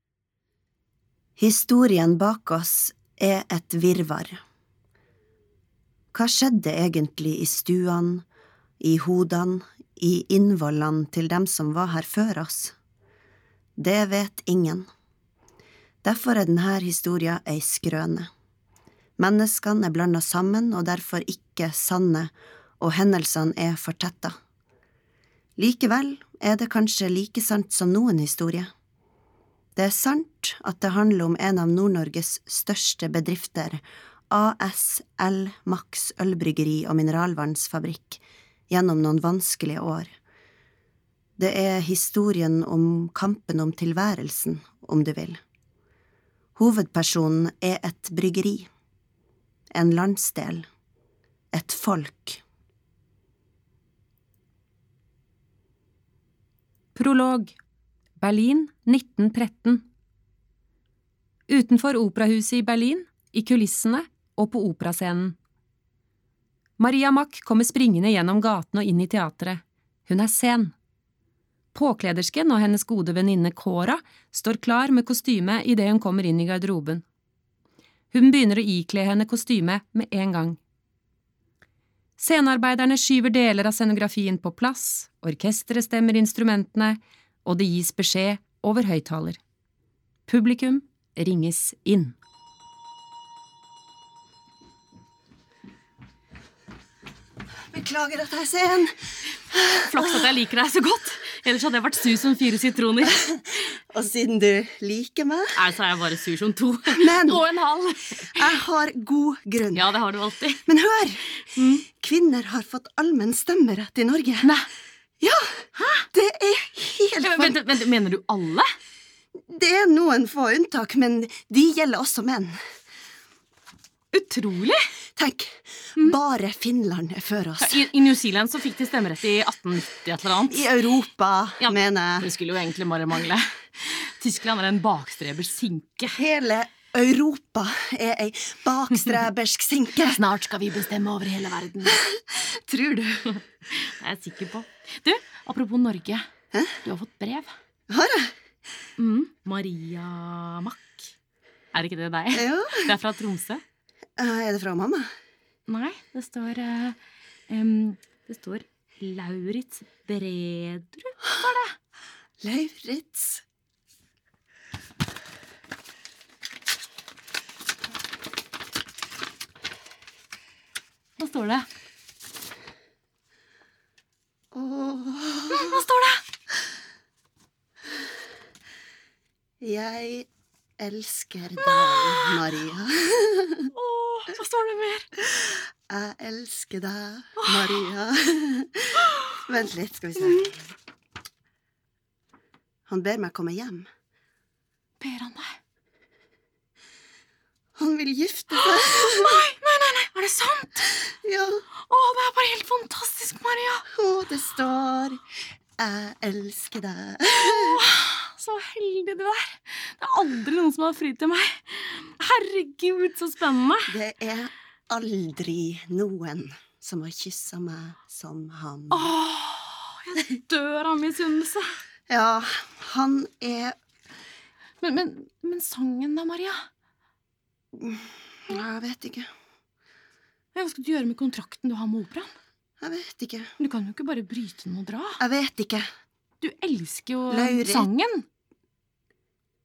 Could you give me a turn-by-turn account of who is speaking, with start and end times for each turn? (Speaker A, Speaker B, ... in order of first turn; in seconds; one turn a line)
Speaker A: 1.4-4.4
Speaker A: 6.1-8.2
Speaker A: 8.8-12.7
Speaker A: 13.8-14.9
Speaker A: 16.0-18.3
Speaker A: 19.2-24.3
Speaker A: 25.6-28.7
Speaker A: 29.8-40.1
Speaker A: 41.4-45.4
Speaker A: 46.5-48.7
Speaker A: 49.7-50.6
Speaker A: 51.5-52.4
Speaker B: 56.9-57.5
Speaker B: 58.2-59.8
Speaker B: 61.5-65.3
Speaker B: 66.8-70.7
Speaker B: 71.7-77.0
Speaker B: 78.1-80.6
Speaker B: 82.2-89.4
Speaker B: 90.3-92.1
Speaker A: 97.7-98.9
Speaker C: 99.5-103.2
Speaker A: 103.0-105.6
Speaker C: 105.5-108.5
Speaker A: 106.9-107.4
Speaker A: 108.3-109.9
Speaker C: 109.7-110.7
Speaker A: 110.7-114.5
Speaker C: 111.5-111.8
Speaker C: 114.4-114.7
Speaker A: 115.2-117.6
Speaker C: 115.8-116.1
Speaker C: 117.2-118.7
Speaker A: 119.5-122.6
Speaker C: 124.1-124.8
Speaker A: 125.2-127.8
Speaker C: 127.6-130.7
Speaker A: 130.5-132.3
Speaker C: 131.6-136.2
Speaker A: 136.1-140.2
Speaker C: 140.0-142.0
Speaker A: 141.8-143.4
Speaker C: 143.4-146.3
Speaker A: 146.5-146.8
Speaker C: 146.8-147.5
Speaker A: 147.9-148.3
Speaker C: 149.0-151.1
Speaker C: 151.7-153.6
Speaker A: 152.3-152.9
Speaker A: 154.2-155.1
Speaker C: 155.7-157.0
Speaker C: 157.5-161.7
Speaker A: 162.4-163.4
Speaker C: 171.2-171.7
Speaker A: 174.5-175.8
Speaker C: 175.5-176.2
Speaker A: 179.6-183.7
Speaker C: 181.6-182.4
Speaker C: 183.7-185.2
Speaker A: 185.9-190.6
Speaker C: 187.4-187.8
Speaker A: 192.9-193.9
Speaker C: 195.0-195.6
Speaker A: 197.8-199.4
Speaker C: 198.5-200.9
Speaker A: 201.2-201.6
Speaker C: 201.8-203.8
Speaker A: 203.9-205.2
Speaker A: 205.8-207.8
Speaker C: 207.3-213.9
Speaker A: 213.9-219.1
Speaker C: 218.9-221.6
Speaker A: 222.1-223.8
Speaker C: 224.8-226.7
Speaker A: 227.7-229.3
Speaker C: 230.5-232.3
Speaker A: 232.8-233.5
Speaker C: 233.6-235.2
Speaker A: 235.2-235.8
Speaker C: 236.4-238.2
Speaker A: 237.3-237.9